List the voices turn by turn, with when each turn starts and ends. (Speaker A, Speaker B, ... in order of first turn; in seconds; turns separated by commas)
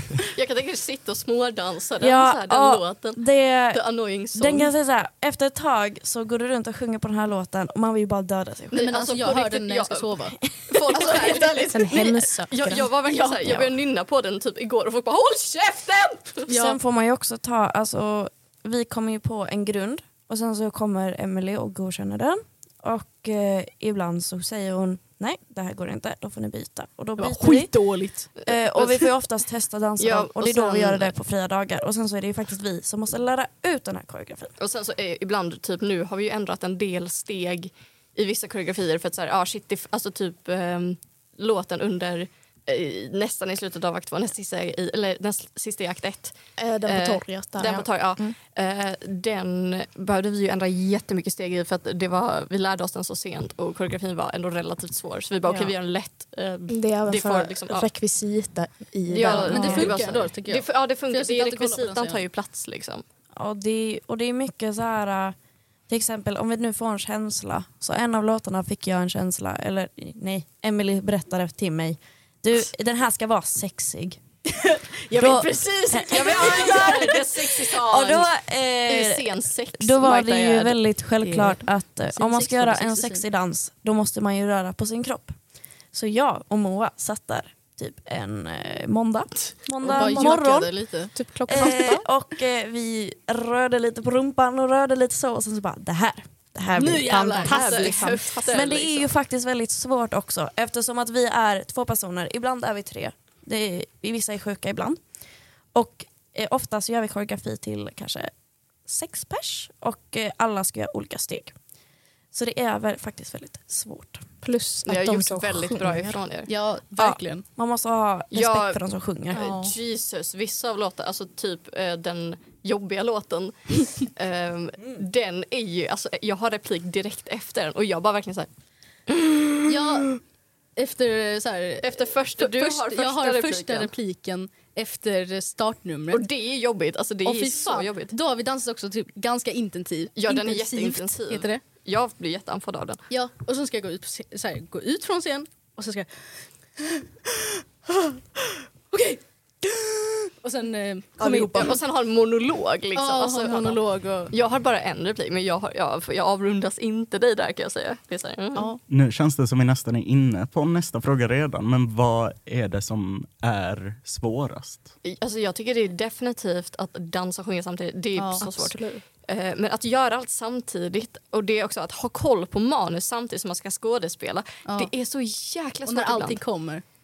Speaker A: 0.2-4.7, Speaker B: 2.0-8.9, Speaker A: 8.7-10.1, Speaker C: 8.7-10.4, Speaker A: 10.7-16.5, Speaker B: 10.7-11.1, Speaker C: 10.9-12.1, Speaker D: 11.7-12.9, Speaker C: 13.1-13.7, Speaker B: 16.5-27.7, Speaker C: 16.5-16.8, Speaker C: 27.2-28.3, Speaker A: 28.4-29.1, Speaker B: 28.4-34.5, Speaker A: 30.0-31.1, Speaker A: 34.6-57.9, Speaker D: 46.6-48.4, Speaker D: 56.7-60.0, Speaker A: 59.1-63.0, Speaker C: 59.2-62.2, Speaker B: 59.5-59.8, Speaker B: 63.3-65.3, Speaker B: 65.9-74.2, Speaker C: 74.5-77.2, Speaker B: 75.1-85.3, Speaker A: 76.1-78.3, Speaker A: 78.8-81.5, Speaker C: 82.1-83.2, Speaker B: 85.9-90.8, Speaker C: 89.8-91.7, Speaker D: 89.9-90.3, Speaker D: 91.1-92.0, Speaker B: 91.5-105.0, Speaker C: 96.7-98.1, Speaker A: 97.4-99.1, Speaker B: 105.7-108.3, Speaker B: 108.8-111.5, Speaker B: 112.3-114.2, Speaker D: 114.4-116.2, Speaker A: 114.8-116.5, Speaker C: 116.5-117.4, Speaker B: 117.0-119.5, Speaker A: 118.3-118.8, Speaker A: 119.3-128.5, Speaker D: 119.4-119.7, Speaker C: 129.7-130.2, Speaker C: 130.8-136.2, Speaker A: 131.8-133.9, Speaker A: 136.1-138.1, Speaker C: 137.2-141.6, Speaker A: 140.2-143.0, Speaker C: 143.1-151.8, Speaker A: 151.2-153.8, Speaker C: 152.9-154.3, Speaker A: 154.3-158.7, Speaker C: 158.5-158.8, Speaker E: 158.9-164.9, Speaker A: 165.0-176.4, Speaker C: 168.2-168.4, Speaker D: 168.4-169.0, Speaker C: 174.7-174.9, Speaker C: 175.8-176.8